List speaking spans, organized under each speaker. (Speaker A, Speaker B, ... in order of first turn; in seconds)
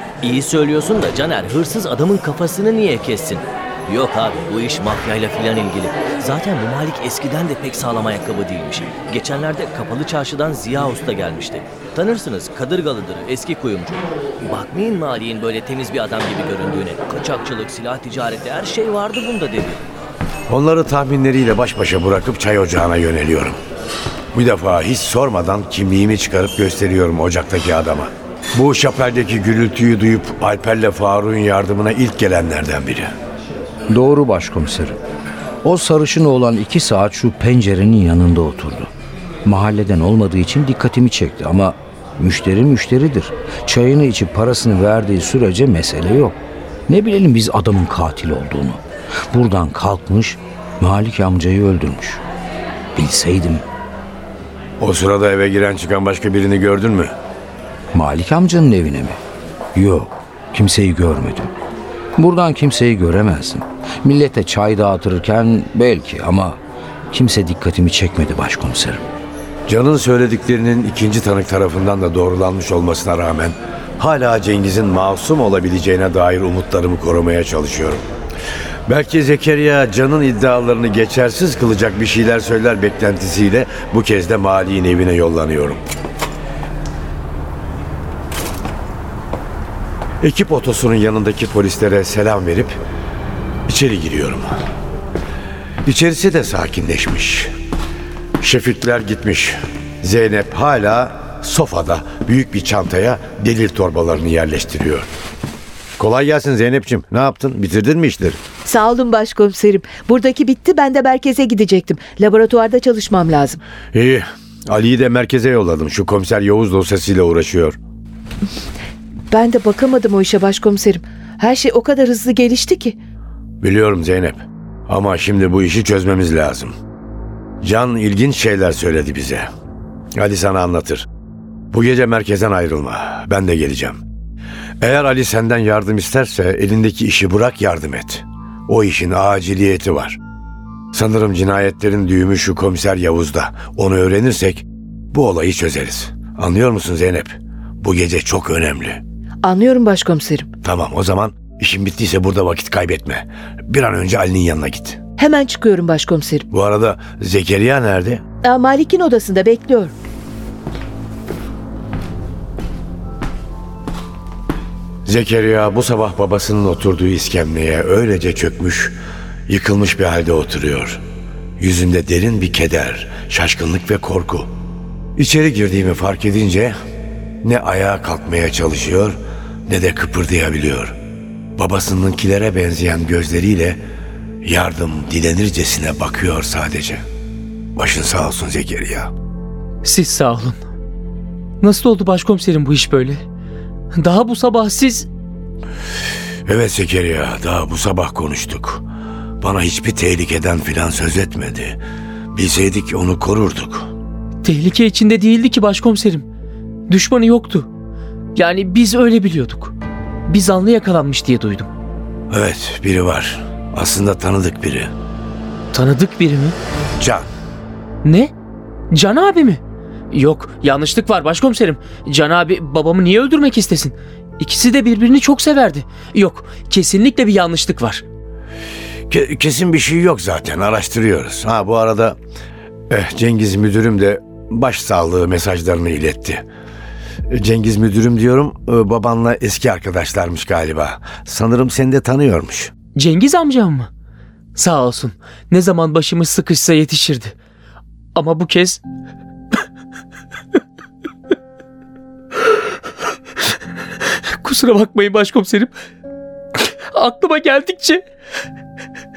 Speaker A: 0.2-19.8
Speaker B: 20.5-23.6, 24.3-33.1, 54.8-57.1, 69.7-78.0, 78.9-85.8, 90.2-92.8, 93.7-94.5, 95.8-97.5, 98.4-105.1, 106.0-108.4, 113.9-117.8, 123.6-126.7, 127.6-129.4, 130.2-131.1, 131.7-134.0, 134.8-140.2, 140.9-149.0, 150.6-155.0, 156.5-158.2, 165.1-168.9, 169.5-171.0, 171.6-174.5, 175.2-176.7, 177.4-180.9, 181.6-183.8, 184.4-187.0, 187.8-189.1, 196.4-198.8, 199.4-201.8, 202.3-203.9, 212.3-214.9, 217.0-217.2, 229.1-232.2, 232.9-236.4, 237.3-242.7
Speaker C: 33.9-35.0, 35.6-38.9, 39.4-52.2, 52.9-53.6, 57.9-59.2, 59.7-61.5, 62.1-66.6, 67.1-69.1
Speaker D: 108.6-113.6, 119.3-123.0, 149.4-150.5, 155.2-156.4, 158.4-159.9
Speaker E: 189.8-190.6, 191.6-193.2, 193.9-195.1, 204.4-206.2, 206.9-207.7, 208.3-209.7, 210.3-211.7, 215.7-216.6, 218.0-218.3, 218.9-228.0, 242.9-243.9, 244.5-247.3, 248.1-248.8, 254.3-255.7, 256.6-258.0